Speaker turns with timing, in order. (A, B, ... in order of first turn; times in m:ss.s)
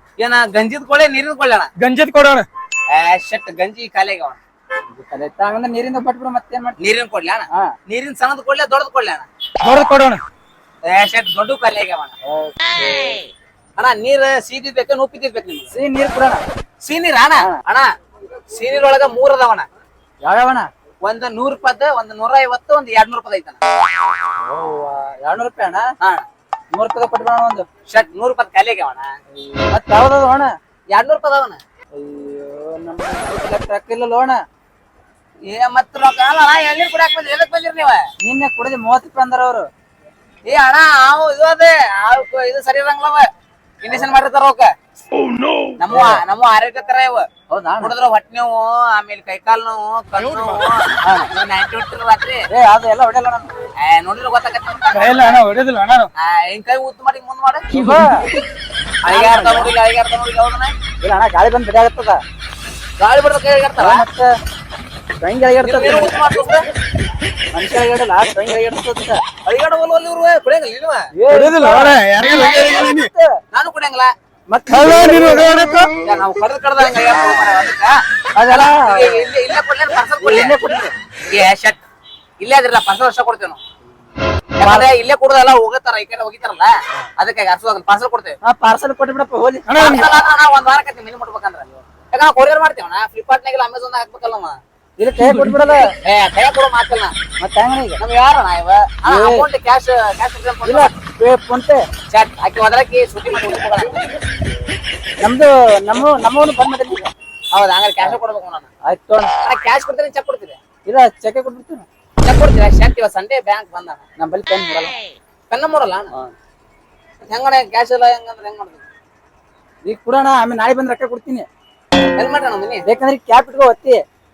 0:00.2-0:01.7 A
0:01.8-0:02.4 B
0:02.9-0:04.4 A
0:05.0-0:06.7 C
0:06.8-0:09.2 A
0:09.6-0:10.2 B
0:10.9-0:12.1 A
0:12.3-0:13.2 C
0:13.8-0:15.7 A
0:15.7-0:16.4 C
0:16.8-0:17.8 A
0:18.5-0:19.7 A
0:20.2-0:20.7 C
0:21.0-0:23.6 A
0:24.5-0:25.9 C
0:26.0-0:26.2 A
0:26.7-0:27.6 C
0:27.9-0:29.1 A
0:29.7-0:30.5 C
0:30.9-0:31.6 A
0:31.9-0:34.4 C
0:35.5-0:38.0 A
0:38.2-0:39.7 C
0:40.4-0:43.3 A
0:43.8-0:44.7 A
0:45.8-0:47.3 A
0:45.9-0:46.2 C
0:47.5-0:47.9 C
0:47.8-0:52.4 A
0:52.5-0:53.5 C
0:53.8-0:55.4 A
0:54.9-0:56.1 B
0:56.2-0:57.7 A
0:57.7-0:58.3 C
0:59.0-1:00.7 A
0:59.1-0:59.7 C
1:01.0-1:02.2 C
1:03.0-1:04.0 A
1:03.8-1:04.3 C
1:05.2-1:06.1 C
1:05.6-1:06.6 A
1:07.5-1:09.2 C
1:09.4-1:11.0 A
1:11.2-1:13.3 C
1:11.3-1:13.0 B
1:13.5-1:14.1 A
1:14.5-1:15.5 C
1:14.7-1:15.9 B
1:16.0-1:18.0 A
1:18.4-1:19.3 C
1:18.5-1:20.5 A
1:20.2-1:20.9 C
1:21.3-1:21.8 A
1:22.4-1:23.6 A
1:24.6-1:28.4 A
1:24.6-1:24.9 C
1:28.4-1:29.7 C
1:29.7-1:30.1 B
1:29.7-1:34.6 A
1:35.0-1:35.9 C
1:36.0-1:37.1 A
1:37.4-1:38.0 C
1:38.0-1:40.9 A
1:39.1-1:39.4 C
1:40.6-1:41.8 C
1:42.1-1:44.1 A
1:45.2-1:47.1 C
1:47.5-1:48.7 A
1:48.8-1:49.3 C
1:49.4-1:50.6 A
1:50.8-1:51.9 C
1:52.2-1:54.0 A
1:54.2-1:54.9 C
1:55.5-1:56.1 A
1:57.3-1:58.8 A
1:59.8-2:01.5 C
2:02.2-2:02.8 A
2:02.8-2:04.0 C